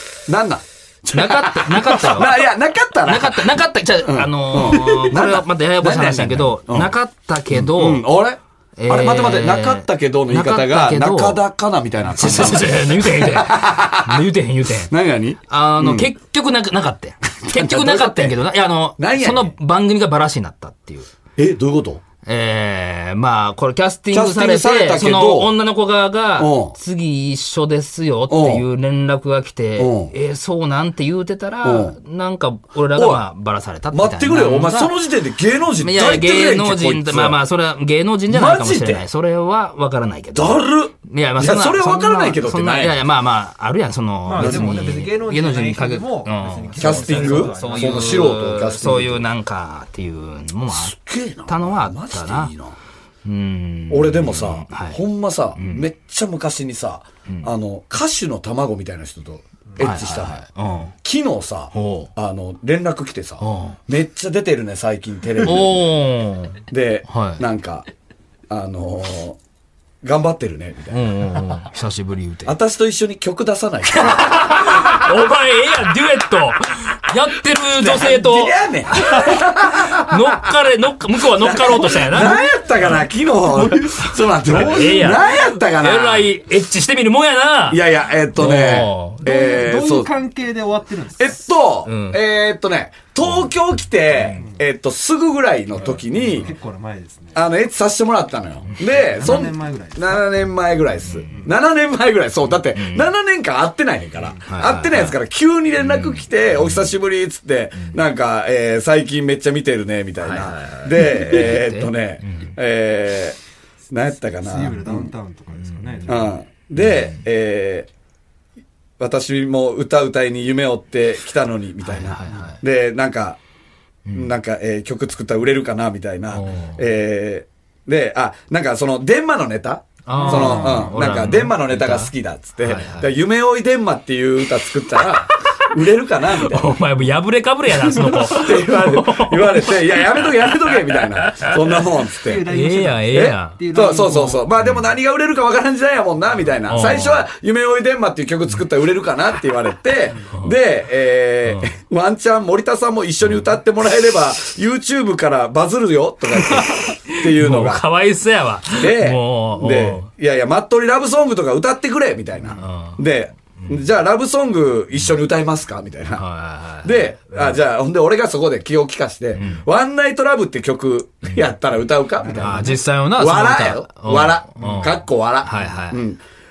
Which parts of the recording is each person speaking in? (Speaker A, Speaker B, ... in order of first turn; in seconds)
Speaker A: 0.3-6.9, 7.5-14.3, 14.8-16.1, 17.4-18.4, 19.0-19.5, 21.4-22.0, 24.1-25.5, 26.4-26.7, 28.3-28.6, 29.8-30.1, 31.6-31.9, 32.9-33.2, 33.9-37.4, 38.3-39.0, 40.3-43.0, 44.4-44.9, 46.8-49.3, 50.7-52.8, 53.9-60.5, 61.0-65.9, 66.7-67.9, 68.5-69.4, 70.0-71.1, 72.5-75.1, 77.5-80.5, 81.3-86.3, 87.7-90.1, 91.2-96.5, 97.3-113.4, 113.9-115.1, 116.0-117.9, 119.0-123.4, 124.1-136.8, 137.7-142.4, 143.1-157.9, 158.7-166.2, 166.8-176.2
Speaker B: 1.1-2.4, 3.0-8.0, 8.8-11.4, 12.1-14.9, 15.5-21.1, 22.2-34.9, 35.8-50.9, 51.5-52.5, 53.2-55.0, 55.5-55.9, 59.8-60.9, 61.7-62.1, 63.4-63.8, 65.4-67.4, 70.9-72.6, 73.9-83.0, 83.5-87.8, 88.3-89.3, 91.8-92.2, 101.0-101.5, 102.7-103.1, 104.5-105.2, 105.8-106.9, 110.2-112.5, 115.6-117.2, 121.8-122.6, 124.0-124.3, 126.3-126.8, 130.1-133.1, 135.2-135.7, 136.2-141.9, 142.4-143.6, 146.7-147.2, 156.3-160.1, 162.5-163.0, 163.6-163.8, 166.2-167.6, 169.3-169.7, 172.3-176.0
Speaker C: 44.2-48.4, 89.2-91.4, 96.0-97.4, 98.8-100.3, 114.3-116.4, 130.1-130.8, 142.2-144.5, 172.2-172.8